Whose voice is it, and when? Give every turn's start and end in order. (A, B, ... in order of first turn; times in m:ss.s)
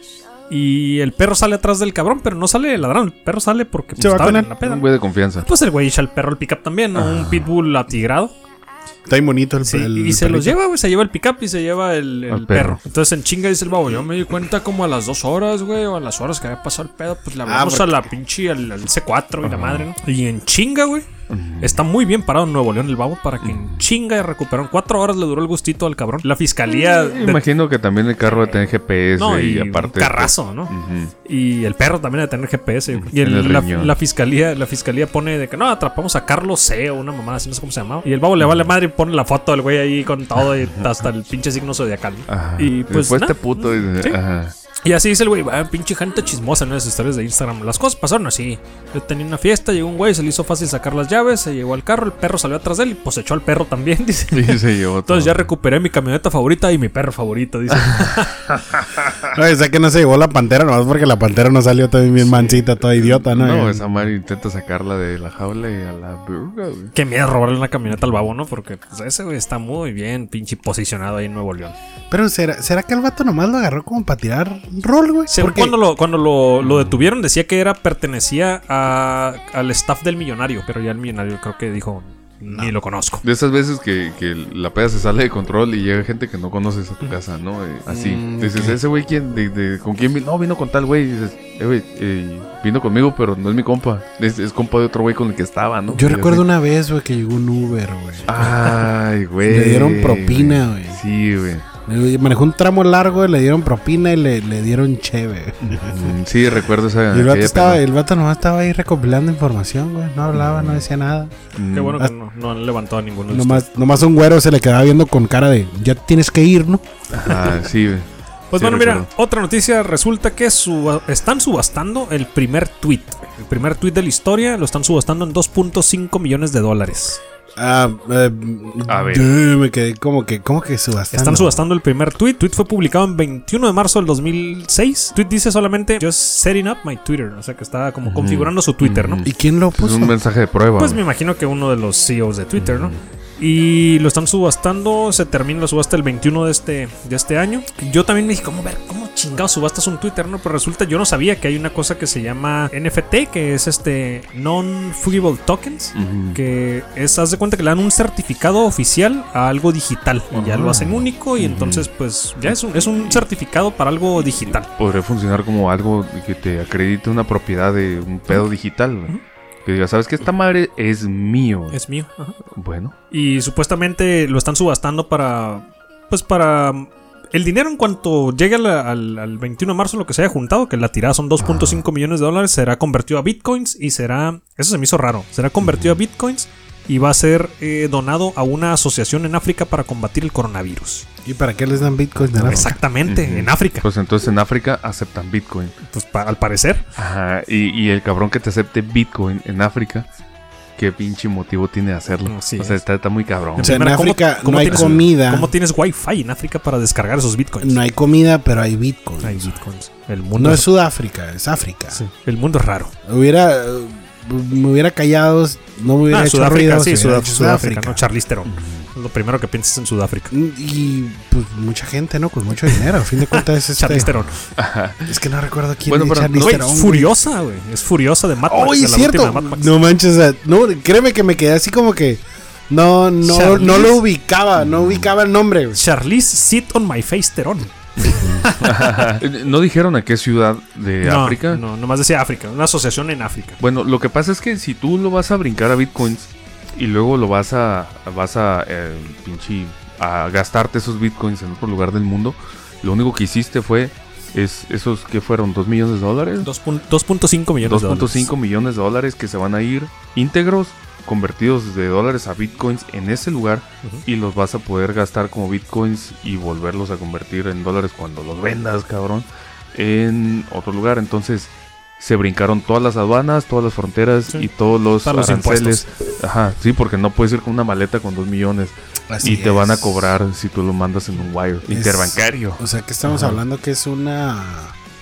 0:00.5-0:04.8 A
0:04.0-0:04.5 B
0:04.0-0:05.5 C
0:05.4-0:08.3 A
0:06.9-0:07.5 C
0:09.1-0:10.6 B
0:09.6-0:21.1 A
0:12.3-0:12.8 C
0:17.4-0:18.1 B
0:19.4-0:19.9 C
0:21.3-0:21.8 C
0:21.6-0:27.4 A
0:23.4-0:23.8 C
0:26.7-0:31.1 C
0:28.3-0:28.6 A
0:29.2-0:30.7 A
0:31.2-0:44.2 A
0:32.9-0:34.0 C
0:38.4-0:38.7 C
0:40.4-0:40.9 C
0:42.3-0:44.5 C
0:44.8-0:58.5 A
0:54.3-0:55.5 C
0:59.3-1:03.9 B
1:02.8-1:06.9 C
1:07.0-1:11.8 A
1:12.1-1:15.8 B
1:15.3-1:23.2 A
1:16.6-1:17.0 C
1:23.2-1:36.5 C
1:27.9-1:28.8 B
1:35.9-1:38.9 B
1:38.3-1:41.7 C
1:39.5-1:41.0 B
1:41.9-1:46.2 B
1:45.6-1:47.8 C
1:47.1-1:51.4 B
1:50.3-1:50.8 C
1:51.6-1:52.0 C
1:51.7-1:53.7 A
1:53.3-1:56.8 B
1:57.1-1:59.1 C
1:58.5-2:07.2 A
2:07.6-2:11.6 B
2:08.9-2:09.3 C
2:11.1-2:19.2 A
2:18.0-2:21.0 C
2:19.2-2:20.2 B
2:20.8-2:44.7 A
2:22.6-2:23.0 C
2:36.0-2:36.4 C
2:40.3-2:41.9 C
2:42.4-2:43.2 C
2:44.7-2:49.1 C
2:49.6-2:51.8 C
2:51.7-2:52.4 A
2:52.5-2:52.9 C
2:53.1-3:11.1 A
3:01.4-3:01.8 C
3:05.6-3:06.0 C
3:11.2-3:12.7 B
3:12.4-3:13.8 A
3:12.4-3:15.8 C
3:15.9-3:16.8 A
3:17.0-3:20.1 C
3:20.8-3:23.7 C
3:22.3-3:22.8 A
3:23.6-3:27.8 A
3:23.6-3:25.5 B
3:24.6-3:25.1 C
3:27.6-3:29.5 B
3:29.2-3:30.7 A
3:30.4-3:32.0 B
3:31.9-3:32.9 A
3:33.1-3:38.0 B
3:36.1-3:40.3 A
3:38.5-3:38.9 C
3:40.3-3:44.1 B
3:42.7-3:44.4 A
3:44.2-3:45.1 C
3:45.1-3:47.1 B
3:45.9-3:46.6 C
3:46.4-3:49.8 A
3:48.5-3:55.8 B
3:53.2-3:54.0 A
3:54.7-3:55.1 C
3:55.7-3:59.1 A
3:58.0-4:01.6 C
4:01.0-4:03.6 A
4:03.6-4:16.5 C
4:16.4-4:18.3 A
4:17.6-4:42.6 C
4:35.0-4:35.9 A
4:39.1-4:40.2 B
4:41.7-4:44.7 B